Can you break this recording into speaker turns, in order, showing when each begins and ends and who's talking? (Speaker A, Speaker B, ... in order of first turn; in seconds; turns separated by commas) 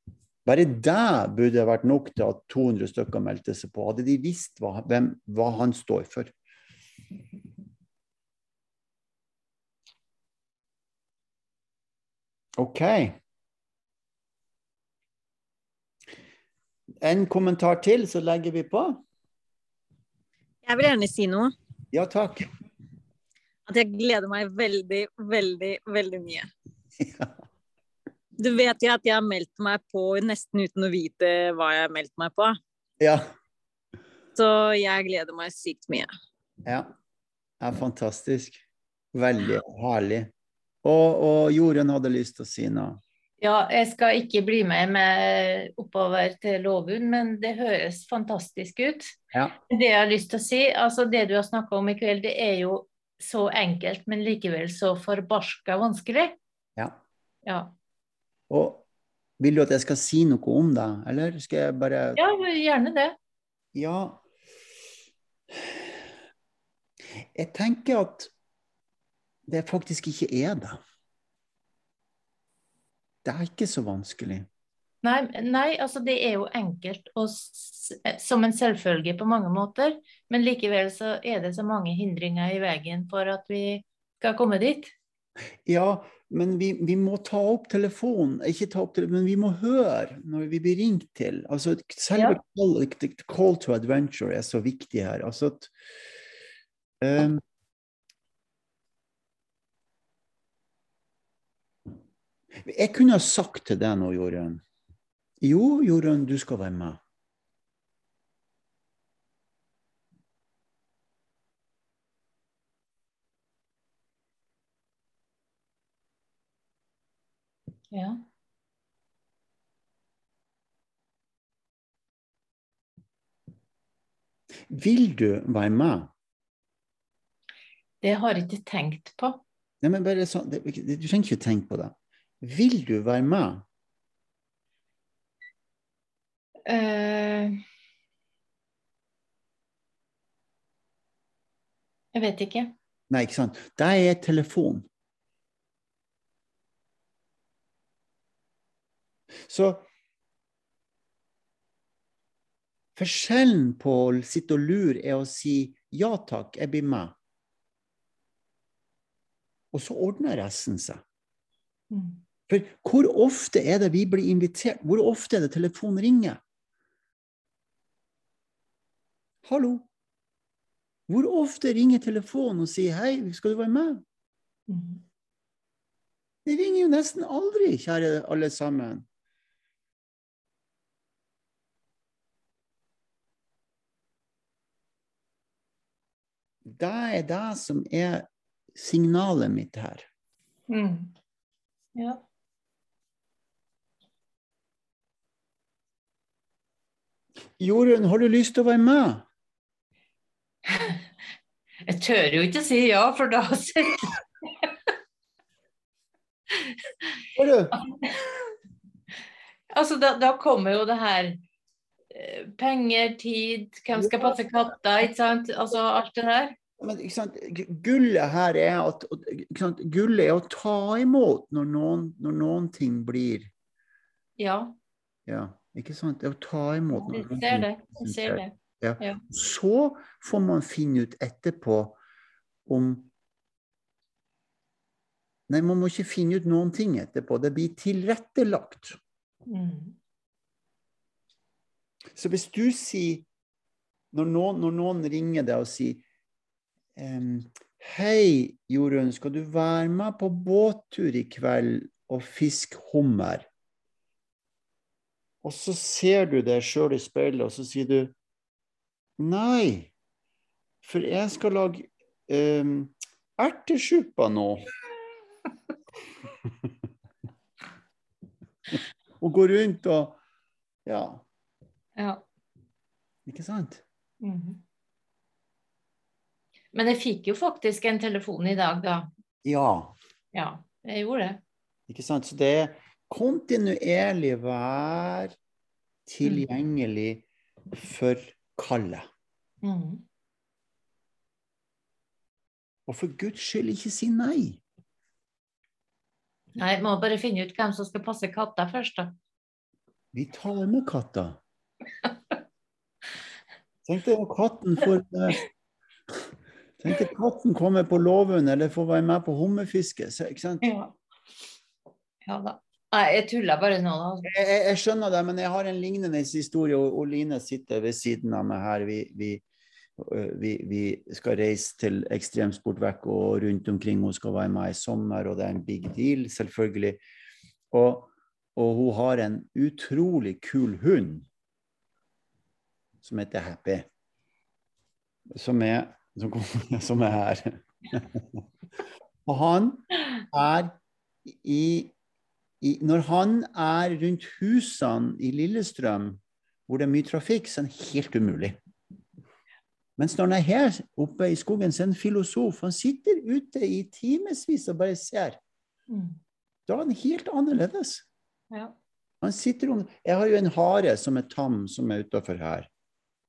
Speaker A: 0.5-6.3, Speaker A: 12.6-13.2, Speaker A: 17.0-19.0, Speaker B: 20.7-21.5, Speaker A: 21.9-22.5, Speaker B: 23.7-26.4, Speaker A: 27.0-27.3, Speaker B: 28.4-32.5, Speaker A: 33.0-33.3, Speaker B: 34.4-36.1, Speaker A: 37.6-38.6, Speaker A: 39.1-40.3, Speaker A: 40.8-43.0, Speaker C: 43.4-49.2, Speaker C: 49.7-56.4, Speaker C: 57.5-57.7, Speaker A: 58.5-58.9, Speaker A: 59.4-62.2, Speaker C: 62.2-63.2, Speaker A: 63.8-64.2, Speaker A: 67.3-68.3, Speaker A: 69.5-70.8, Speaker A: 73.2-74.5, Speaker C: 75.0-84.9, Speaker A: 85.7-95.7, Speaker A: 97.0-97.4, Speaker A: 102.7-104.6, Speaker A: 105.4-107.0, Speaker C: 117.9-118.2, Speaker A: 124.7-126.1, Speaker C: 128.0-129.4, Speaker A: 129.8-133.7, Speaker C: 136.7-137.6, Speaker C: 142.1-142.7, Speaker A: 143.1-144.9, Speaker A: 149.4-149.8, Speaker A: 153.0-157.2, Speaker A: 159.7-161.0, Speaker C: 161.9-162.2, Speaker A: 162.5-166.4, Speaker A: 169.4-169.9, Speaker A: 171.1-174.0, Speaker C: 174.7-175.0, Speaker A: 176.5-179.1, Speaker A: 186.7-190.1, Speaker C: 190.7-191.1, Speaker C: 191.9-192.2, Speaker A: 197.6-199.3, Speaker C: 200.7-201.0, Speaker C: 201.9-204.1, Speaker A: 207.3-207.8, Speaker C: 207.8-208.1, Speaker C: 209.7-211.4, Speaker C: 212.1-216.6, Speaker A: 216.8-223.5, Speaker C: 224.4-224.8, Speaker A: 225.3-232.0, Speaker C: 226.9-229.2, Speaker A: 232.7-233.1, Speaker A: 235.5-239.0, Speaker C: 239.5-240.0, Speaker A: 242.2-243.3, Speaker A: 244.1-246.0, Speaker A: 247.0-253.5, Speaker A: 255.4-258.1, Speaker A: 259.2-259.9, Speaker A: 260.8-264.6, Speaker A: 269.2-270.2, Speaker A: 270.9-271.2, Speaker C: 272.0-272.2, Speaker A: 273.3-273.8, Speaker C: 274.2-274.6, Speaker C: 276.7-279.1, Speaker A: 279.4-280.0, Speaker C: 280.3-281.4, Speaker A: 281.9-285.4, Speaker A: 286.1-289.1, Speaker C: 289.6-290.1, Speaker A: 292.9-294.6, Speaker C: 296.6-299.1, Speaker A: 300.1-301.4, Speaker A: 303.9-305.4, Speaker A: 306.8-310.7, Speaker C: 310.6-310.9, Speaker C: 312.3-314.3, Speaker A: 314.2-319.4, Speaker A: 320.0-327.0, Speaker A: 327.7-331.3, Speaker A: 333.0-333.9, Speaker A: 335.3-338.4, Speaker A: 339.3-341.9, Speaker A: 342.6-348.6, Speaker A: 350.0-355.4, Speaker C: 355.9-356.2, Speaker A: 356.7-358.1, Speaker A: 359.2-362.7